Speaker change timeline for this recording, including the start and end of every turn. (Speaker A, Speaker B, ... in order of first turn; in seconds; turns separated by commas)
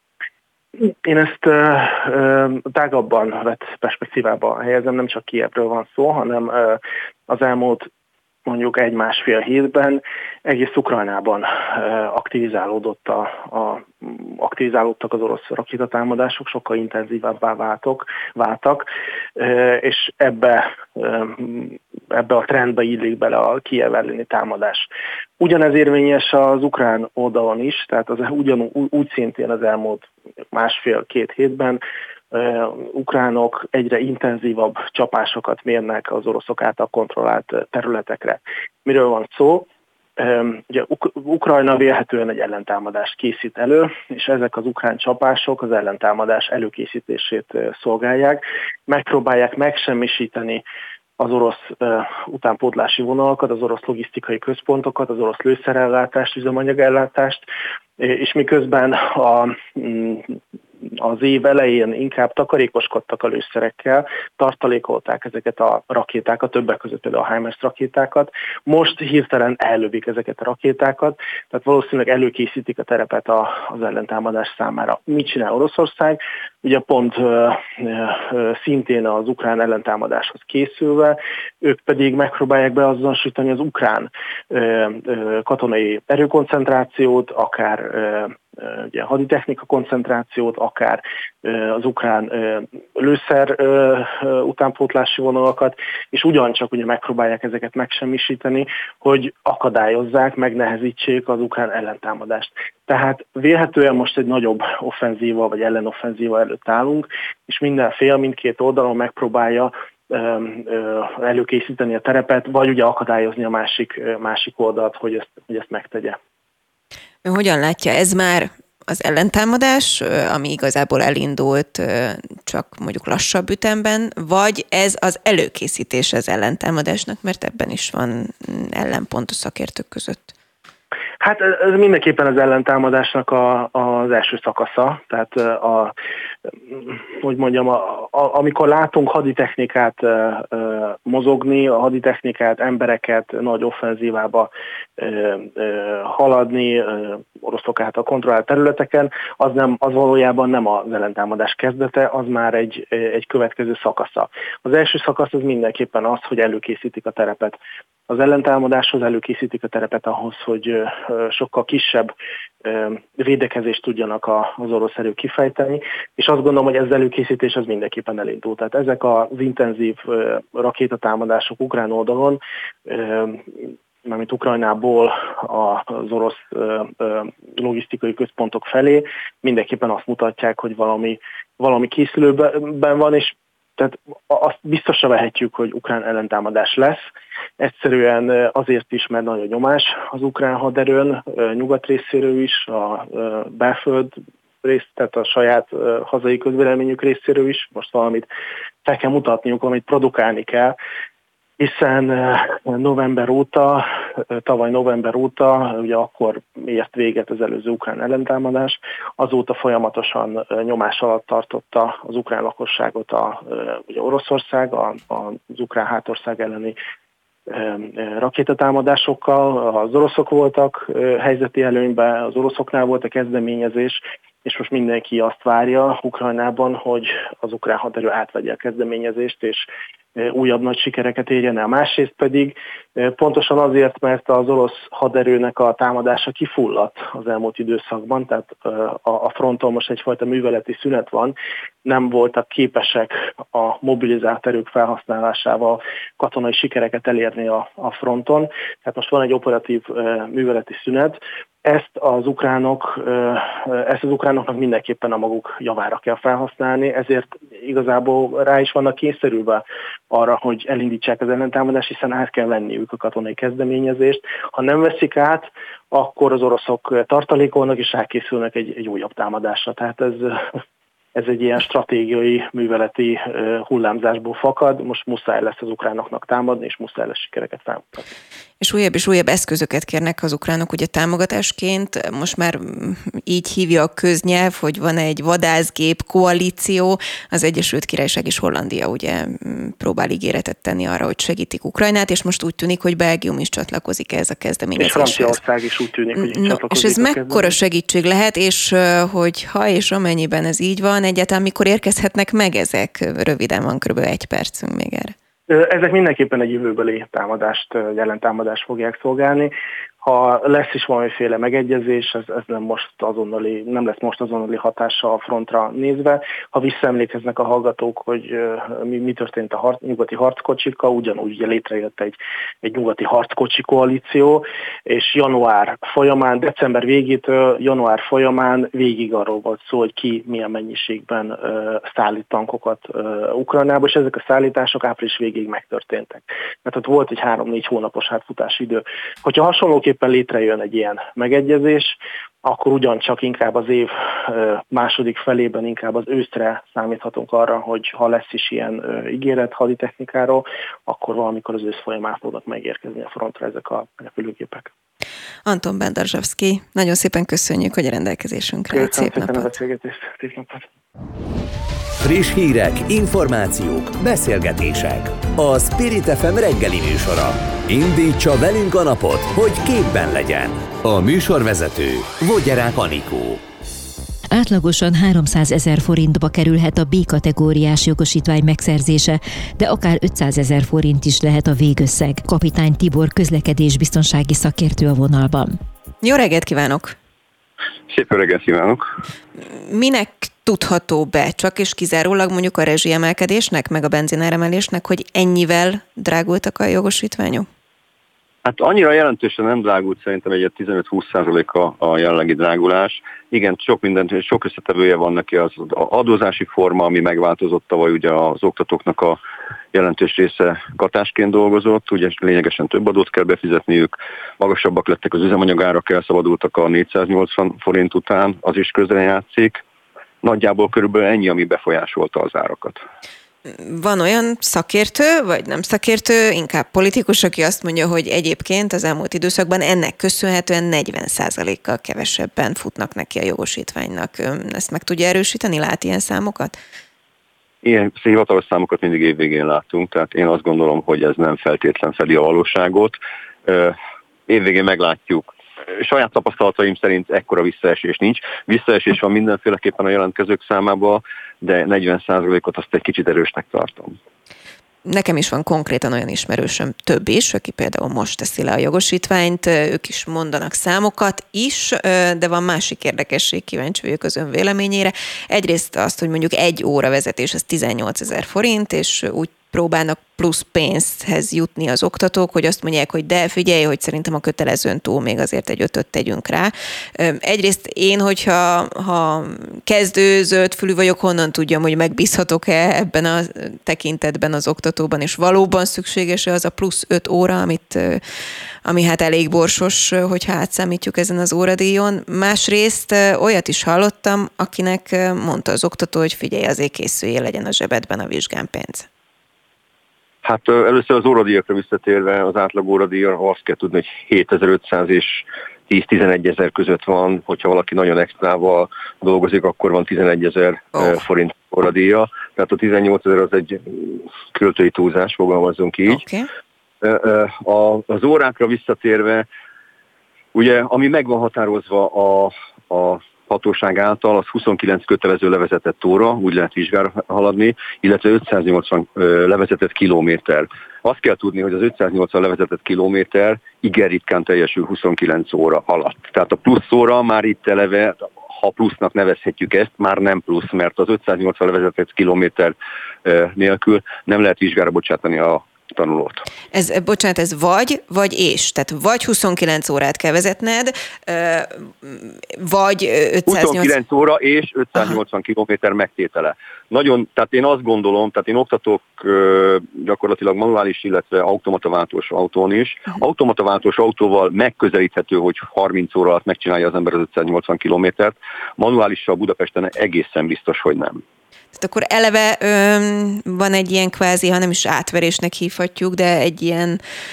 Speaker A: 0.8-7.9, Speaker A: 8.5-24.9, Speaker A: 25.4-31.8, Speaker A: 32.3-50.6, Speaker A: 51.2-57.5, Speaker A: 58.0-60.4, Speaker A: 61.0-116.2, Speaker B: 117.2-130.3, Speaker A: 131.2-135.9, Speaker A: 136.7-157.6, Speaker A: 158.1-162.1, Speaker A: 162.6-187.1, Speaker A: 187.6-198.3, Speaker A: 198.8-200.8, Speaker A: 201.6-216.8, Speaker A: 217.5-270.4, Speaker A: 271.1-278.1, Speaker B: 278.6-295.4, Speaker A: 294.8-297.5, Speaker B: 296.2-305.1, Speaker A: 305.5-354.7, Speaker B: 355.5-359.5, Speaker A: 358.7-360.7, Speaker C: 362.0-373.4, Speaker D: 374.3-385.6, Speaker B: 386.0-386.9, Speaker E: 387.9-388.9, Speaker B: 389.5-397.5, Speaker E: 398.4-409.2, Speaker E: 409.7-419.6, Speaker E: 420.2-422.8, Speaker B: 423.5-436.6, Speaker E: 437.6-443.8, Speaker E: 444.3-454.0, Speaker B: 454.9-488.0, Speaker B: 488.6-498.9, Speaker E: 500.2-516.0, Speaker B: 515.9-516.3, Speaker E: 516.8-519.3, Speaker E: 520.3-546.2, Speaker B: 546.5-553.7, Speaker E: 553.3-571.0, Speaker B: 571.6-576.8